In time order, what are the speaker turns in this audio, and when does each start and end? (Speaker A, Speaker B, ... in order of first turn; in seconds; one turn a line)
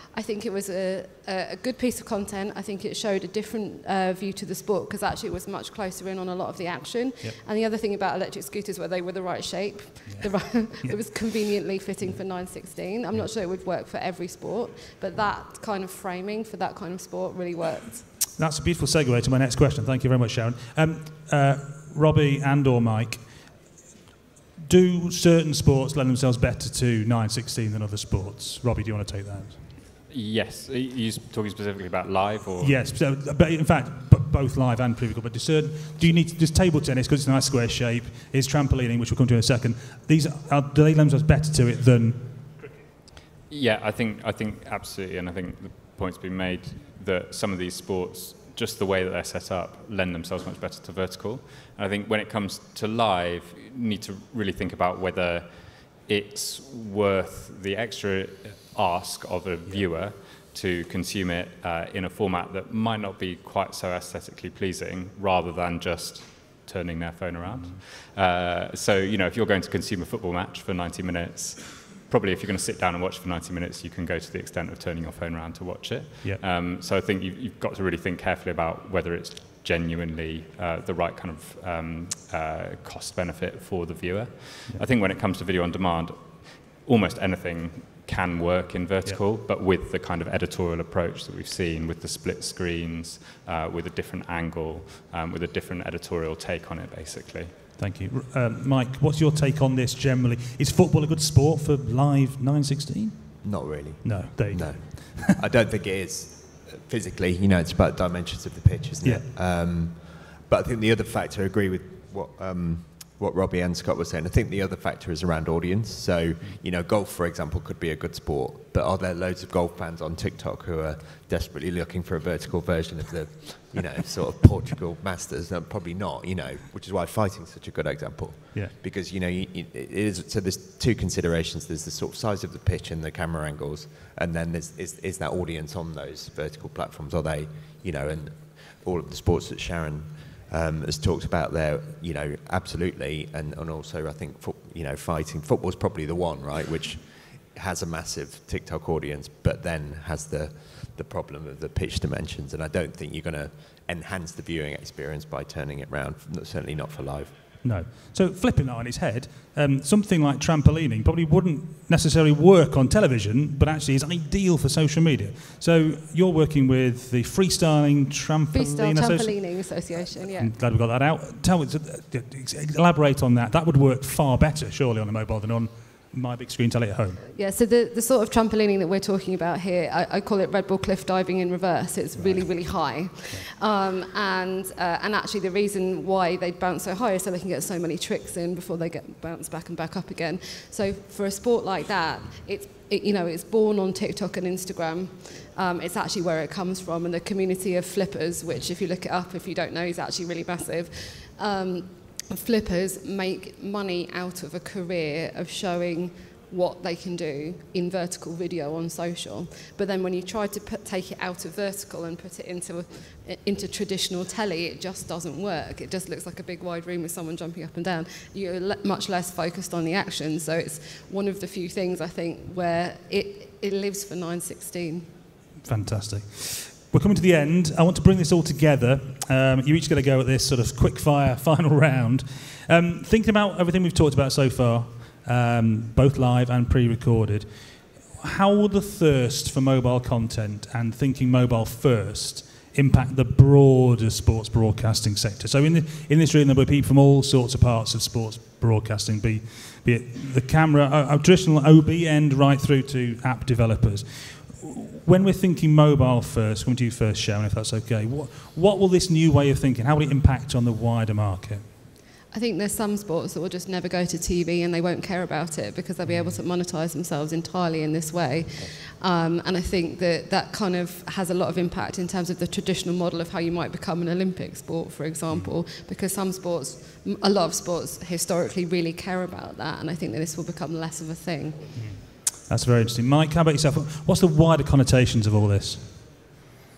Speaker A: 0.1-18.1
Speaker B: 10.1-11.1
Speaker B: 18.4-23.6
Speaker B: 24.6-29.7
Speaker C: 30.1-32.8
Speaker B: 32.6-42.8
Speaker C: 43.5-97.6
Speaker B: 67.4-67.8
Speaker B: 97.8-103.4
Speaker D: 103.4-157.4
Speaker B: 104.0-105.4
Speaker B: 157.6-177.2
Speaker A: 168.5-170.5
Speaker A: 177.3-225.1
Speaker B: 182.2-182.5
Speaker B: 225.6-261.6
Speaker A: 262.3-281.7
Speaker B: 266.1-266.4
Speaker B: 281.8-286.1